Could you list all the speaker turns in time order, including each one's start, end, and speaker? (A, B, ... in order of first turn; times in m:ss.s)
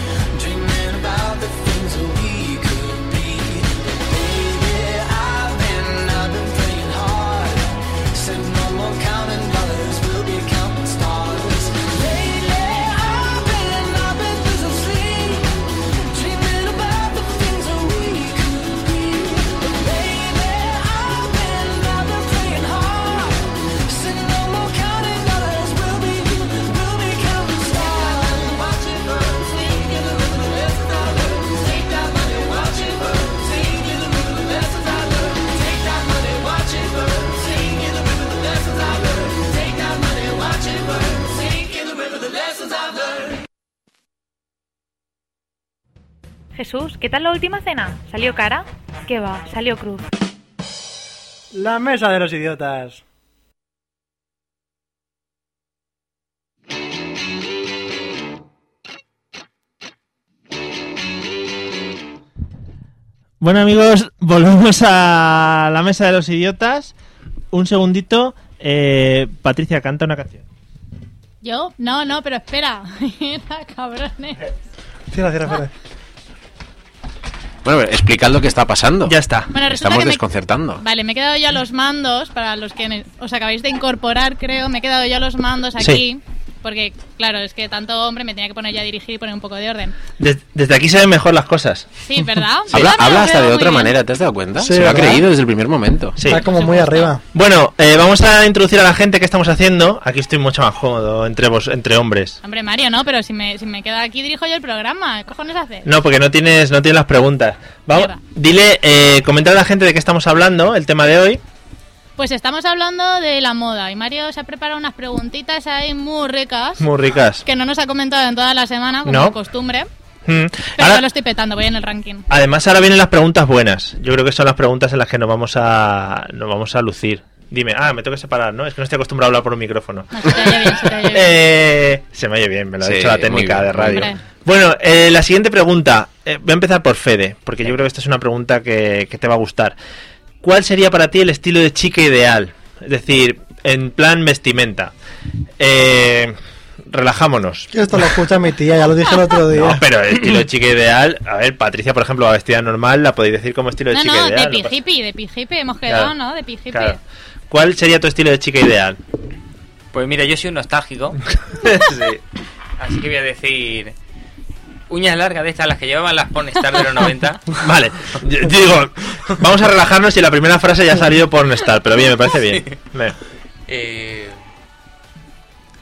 0:00.3-0:43.4 A
0:46.6-0:50.1 B
0:51.5-0:53.0 C
1:03.4-1:06.9 D
1:07.5-1:10.4 D
1:11.4-1:14.4 E
1:15.1-1:15.7 C
1:17.6-1:20.8 F
1:19.1-1:19.5 D
1:19.5-1:20.2 E
1:20.8-1:30.0 E
1:30.2-1:31.9 D
1:32.0-1:33.9 E
1:32.7-1:36.2 F
1:34.6-1:35.3 C
1:36.2-1:36.5 D
1:36.3-1:37.2 C
1:36.3-1:37.1 E
1:37.3-1:42.4 D
1:42.4-1:45.9 E
1:45.8-1:51.4 D
1:47.9-1:48.2 E
1:52.2-1:56.9 E
1:56.8-1:57.4 D
1:57.5-1:59.9 E
1:59.0-1:59.4 D
2:00.3-2:01.0 D
2:00.8-2:02.2 E
2:02.3-2:19.8 D
2:10.1-2:11.4 E
2:12.8-2:14.1 F
2:13.9-2:14.2 E
2:20.4-2:24.9 D
2:25.6-2:26.4 D
2:26.9-2:27.7 D
2:27.7-2:29.9 C
2:29.5-2:34.8 D
2:33.9-2:37.0 E
2:35.9-2:36.1 D
2:36.7-2:39.0 D
2:39.9-2:41.2 G
2:41.6-2:42.2 D
2:42.8-2:44.0 G
2:44.9-2:47.6 G
2:47.6-2:53.2 D
2:52.5-2:52.8 G
2:53.7-2:54.4 G